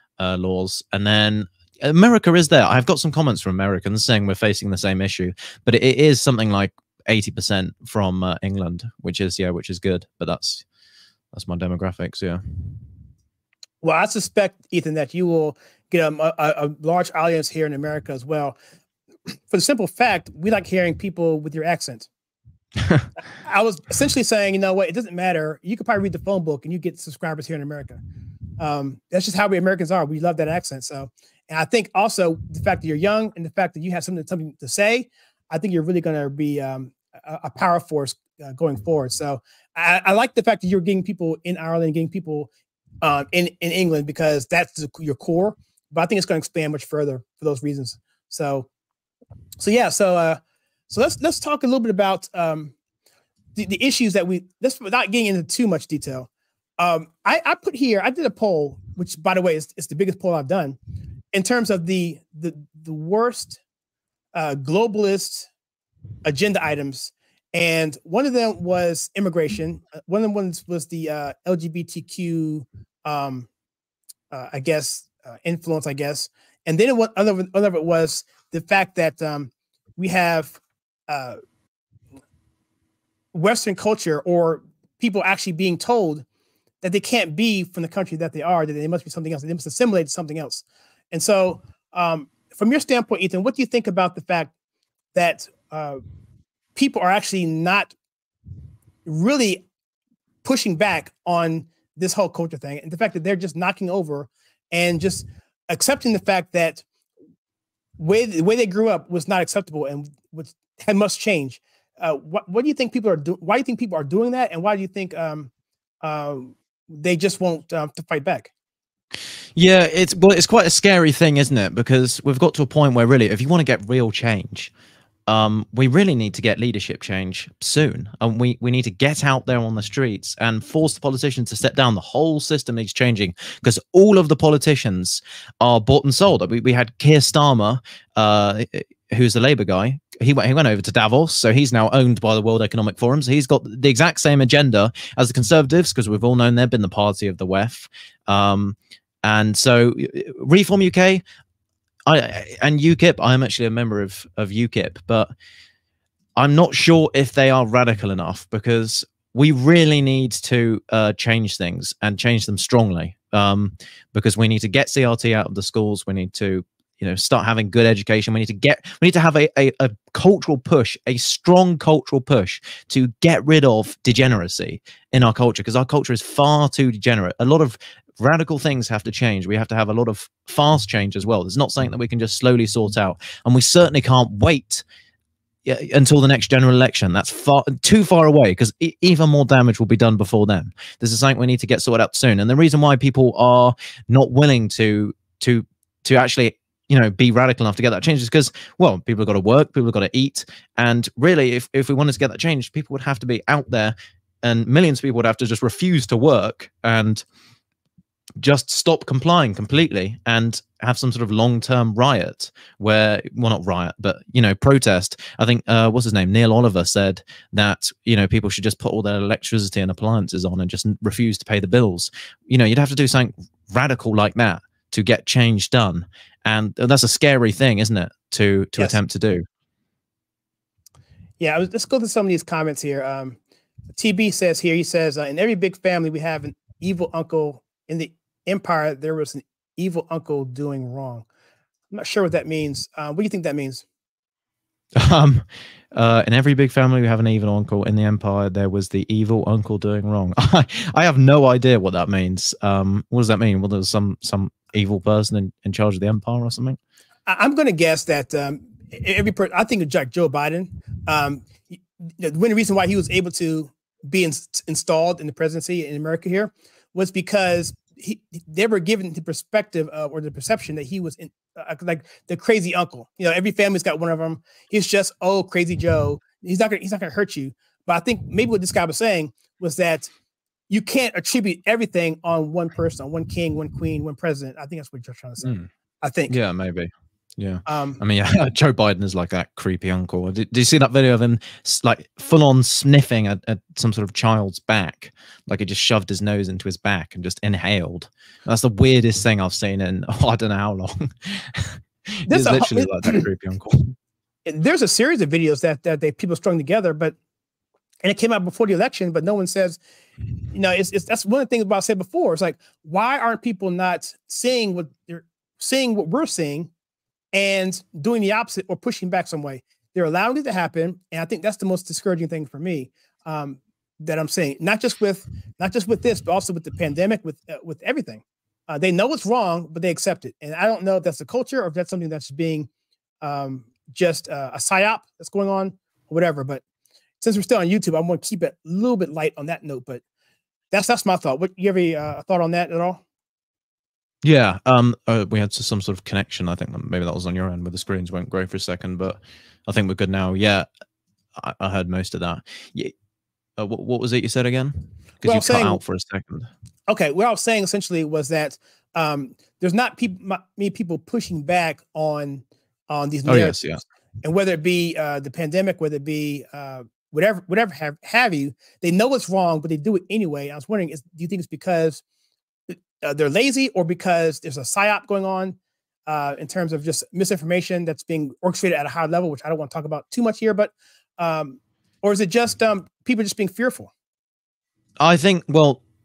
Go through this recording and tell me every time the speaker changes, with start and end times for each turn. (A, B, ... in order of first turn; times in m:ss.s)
0:00.2-0:10.6 A
0:11.3-0:12.8 A
0:13.8-0:18.6 B
0:19.5-0:22.1 B
0:23.4-0:28.0 B
0:28.6-0:42.5 B
0:43.0-0:48.7 B
0:49.6-0:52.7 B
0:53.6-0:56.3 B
0:56.8-1:00.8 B
1:01.3-1:03.6 B
1:04.3-1:05.5 B
1:06.2-1:13.5 B
1:14.3-1:21.4 B
1:23.3-1:26.2 B
1:26.8-1:34.5 B
1:35.2-1:36.0 B
1:36.8-1:38.0 B
1:39.1-1:39.6 B
1:40.4-1:46.8 B
1:48.0-1:55.5 B
1:56.0-1:58.5 B
1:59.6-2:04.7 A
2:05.3-2:31.2 A
2:32.1-2:35.3 A
2:36.4-3:04.8 A
3:05.7-3:27.2 A
3:28.4-3:49.4 A
3:51.4-3:53.4 B
3:54.0-4:01.2 B
4:01.9-4:03.8 B
4:05.0-4:16.8 A
4:17.3-4:40.1 B
4:40.7-4:45.5 B
4:45.4-4:45.7 A
4:46.0-4:46.3 B
4:46.3-5:04.0 A
4:47.7-4:48.0 B
5:02.3-5:03.2 B
5:04.4-5:07.2 B
5:08.0-5:09.8 B
5:10.5-5:16.7 B
5:17.3-5:32.7 B
5:33.2-5:36.6 B
5:37.2-5:40.0 B
5:40.7-5:43.0 B
5:44.2-5:50.7 A
5:51.4-5:52.9 A
5:53.6-5:56.5 A
5:55.2-5:55.8 B
5:56.9-6:03.6 B
6:03.3-6:03.8 A
6:04.2-6:12.0 B
6:12.7-6:23.9 B
6:25.0-6:25.8 A